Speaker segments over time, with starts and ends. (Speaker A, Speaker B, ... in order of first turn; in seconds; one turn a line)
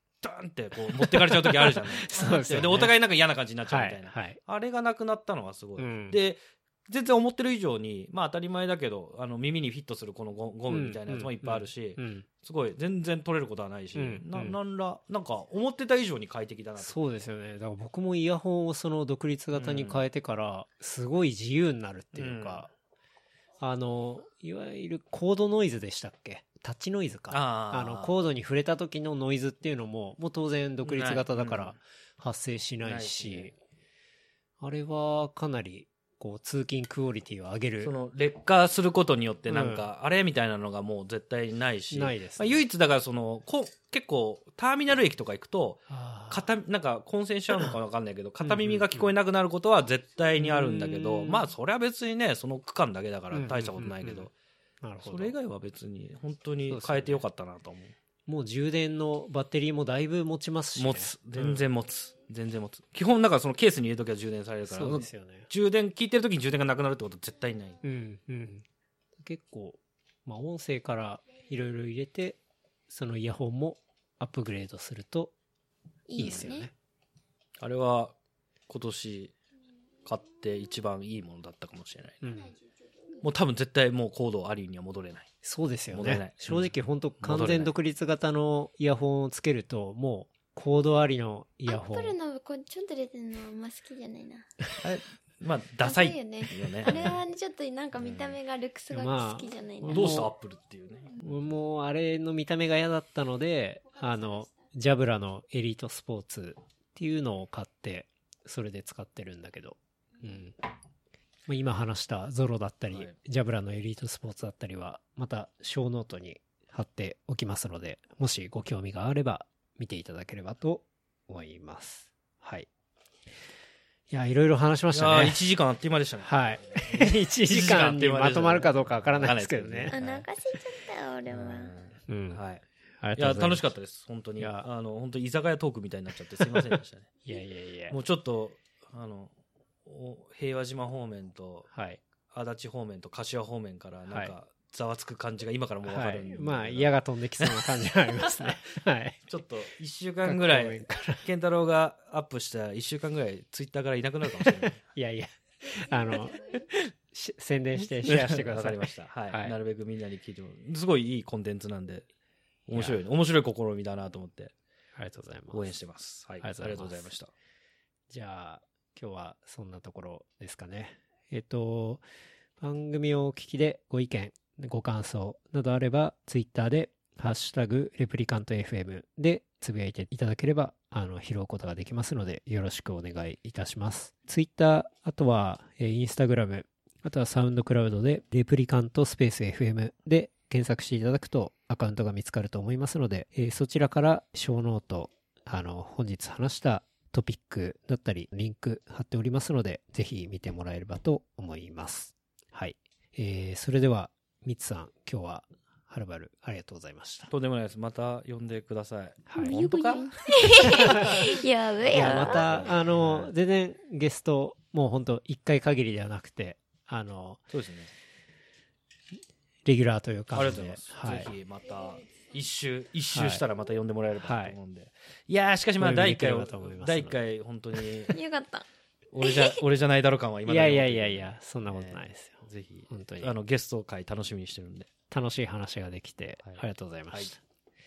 Speaker A: 0.2-17.0
Speaker B: 0.8-3.0
Speaker B: 3.6-4.4
Speaker B: 5.8-6.2
Speaker B: 10.7-12.3
Speaker B: 13.9-14.6
Speaker B: 16.8-22.7
Speaker A: 19.5-20.1
Speaker A: 22.1-22.7
Speaker B: 23.6-33.5
Speaker A: 27.3-28.1
Speaker A: 30.8-31.8
Speaker A: 32.8-33.5
Speaker B: 34.6-37.9
Speaker A: 37.8-54.3
Speaker B: 39.5-39.8
Speaker B: 41.9-42.6
Speaker B: 45.9-46.5
Speaker B: 48.4-49.1
Speaker B: 50.4-51.5
Speaker B: 53.3-54.3
Speaker B: 54.8-55.3
Speaker A: 55.0-58.0
Speaker B: 56.7-57.2
Speaker B: 58.3-61.6
Speaker A: 60.8-67.8
Speaker B: 64.7-65.5
Speaker B: 67.8-68.6
Speaker B: 69.2-75.3
Speaker C: 76.1-76.7
Speaker B: 76.2-76.7
Speaker A: 76.2-76.5
Speaker A: 77.6-78.1
Speaker A: 78.7-79.3
Speaker A: 80.0-82.3
Speaker B: 82.2-82.5
Speaker A: 83.2-85.3
Speaker B: 85.4-92.1
Speaker A: 85.9-87.7
Speaker C: 91.7-94.5
Speaker A: 94.8-97.2
Speaker C: 95.8-100.2
Speaker B: 96.8-97.2
Speaker A: 98.0-98.4
Speaker B: 98.9-100.3
Speaker A: 99.9-101.2
Speaker B: 101.2-110.6
Speaker B: 111.5-122.7
Speaker B: 124.1-125.4
Speaker A: 124.9-130.3
Speaker B: 126.2-130.0
Speaker C: 129.9-131.7
Speaker A: 131.3-132.6
Speaker B: 132.1-132.4
Speaker B: 133.0-133.6
Speaker A: 133.2-137.1
Speaker B: 134.4-134.7
Speaker B: 136.4-137.9
Speaker A: 137.9-139.3
Speaker A: 139.8-141.7
Speaker B: 141.7-142.0
Speaker A: 142.3-148.6
Speaker B: 144.1-144.3
Speaker B: 145.8-149.2
Speaker A: 149.3-154.8
Speaker B: 150.2-151.2
Speaker B: 154.3-159.6
Speaker A: 157.8-162.1
Speaker A: 162.7-164.5
Speaker B: 164.9-165.8
Speaker A: 165.5-167.3
Speaker B: 166.4-167.1
Speaker B: 168.1-172.0
Speaker B: 172.6-207.3
Speaker A: 207.3-213.3
Speaker B: 209.3-209.6
Speaker C: 209.3-212.5
Speaker B: 210.6-211.2
Speaker B: 211.9-217.5
Speaker A: 217.5-217.9
Speaker B: 219.6-221.3
Speaker A: 220.3-228.1
Speaker B: 223.1-223.4
Speaker B: 224.2-224.6
Speaker B: 225.8-227.2
Speaker C: 228.1-228.7
Speaker A: 229.1-234.9
Speaker C: 229.2-229.6
Speaker B: 230.4-233.3
Speaker B: 235.1-237.4
Speaker A: 236.4-237.3